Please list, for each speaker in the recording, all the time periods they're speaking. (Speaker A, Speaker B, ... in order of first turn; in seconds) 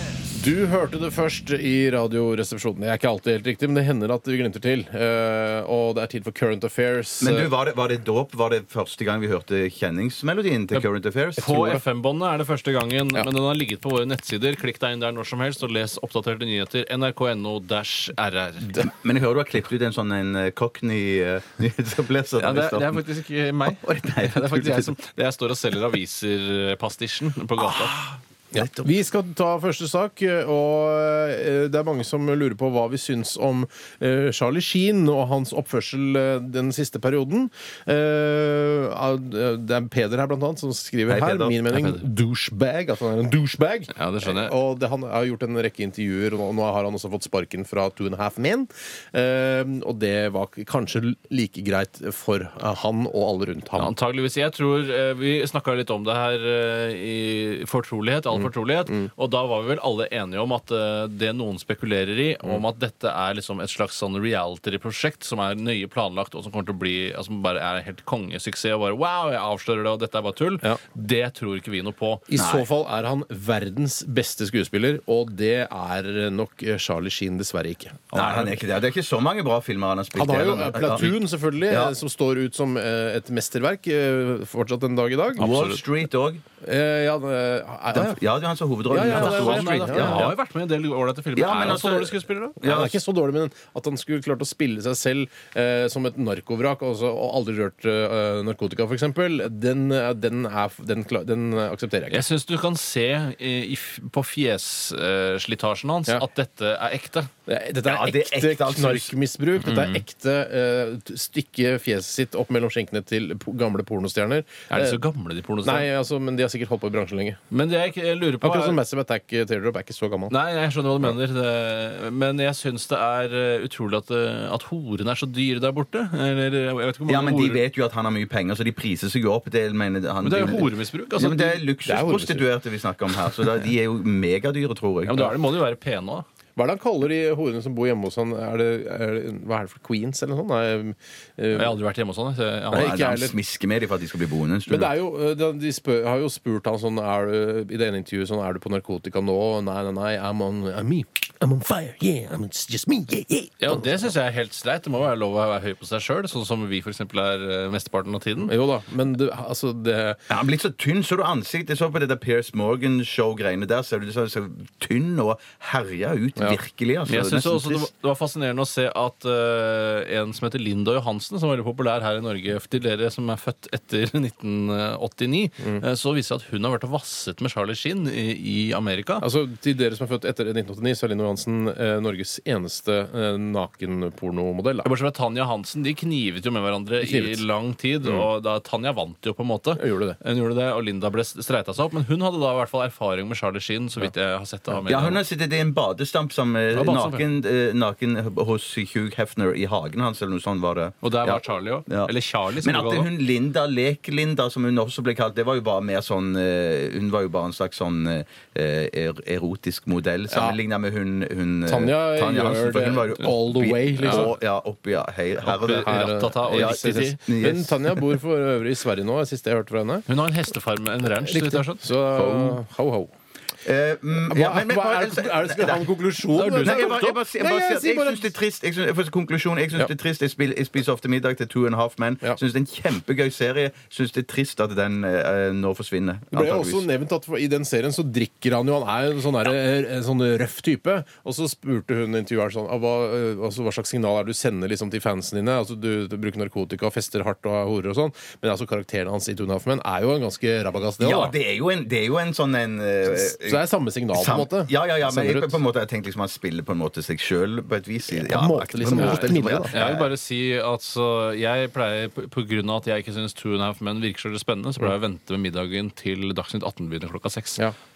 Speaker A: 0.3-7.5, 11.4-11.8, 28.5-53.9, 72.3-78.6, 80.2-85.5, 86.6-88.2, 88.9-90.3, 92.6-102.2, 107.5-115.0, 115.6-117.4, 118.4-120.3, 131.9-132.5, 136.6-141.8, 142.7-143.3, 144.7-154.1, 158.5-160.2, 179.2-184.9, 187.0-187.4, 189.8-190.2, 196.8-197.2, 210.3-210.6, 211.7-214.3, 215.8-220.1, 221.1-223.1, 224.3-228.3, 236.3-251.3, 253.1-255.6, 258.1-259.8
Speaker B: 7.2-11.5, 18.8-23.0, 23.6-24.9, 27.6-28.9, 41.1-41.6, 72.4-72.7, 78.1-81.9, 85.4-86.4, 87.9-90.4, 91.3-93.0, 107.8-109.1, 127.1-135.4, 142.7-144.9, 160.3-167.9, 194.9-217.9, 222.2-222.5, 223.6-225.9, 226.6-236.8, 251.0-253.6, 254.1-260.1
Speaker C: 11.4-18.9, 22.4-28.0, 41.7-42.0, 43.9-44.5, 53.8-72.3, 85.4-85.8, 89.0-92.6, 102.1-107.3, 109.7-110.0, 114.7-115.9, 117.5-118.8, 120.3-127.6, 130.2-131.6, 135.1-136.3, 141.6-143.0, 153.6-158.5, 167.1-179.2, 184.8-195.2, 201.0-203.1, 215.5-217.2, 220.1-221.8, 226.3-227.2, 258.9-267.6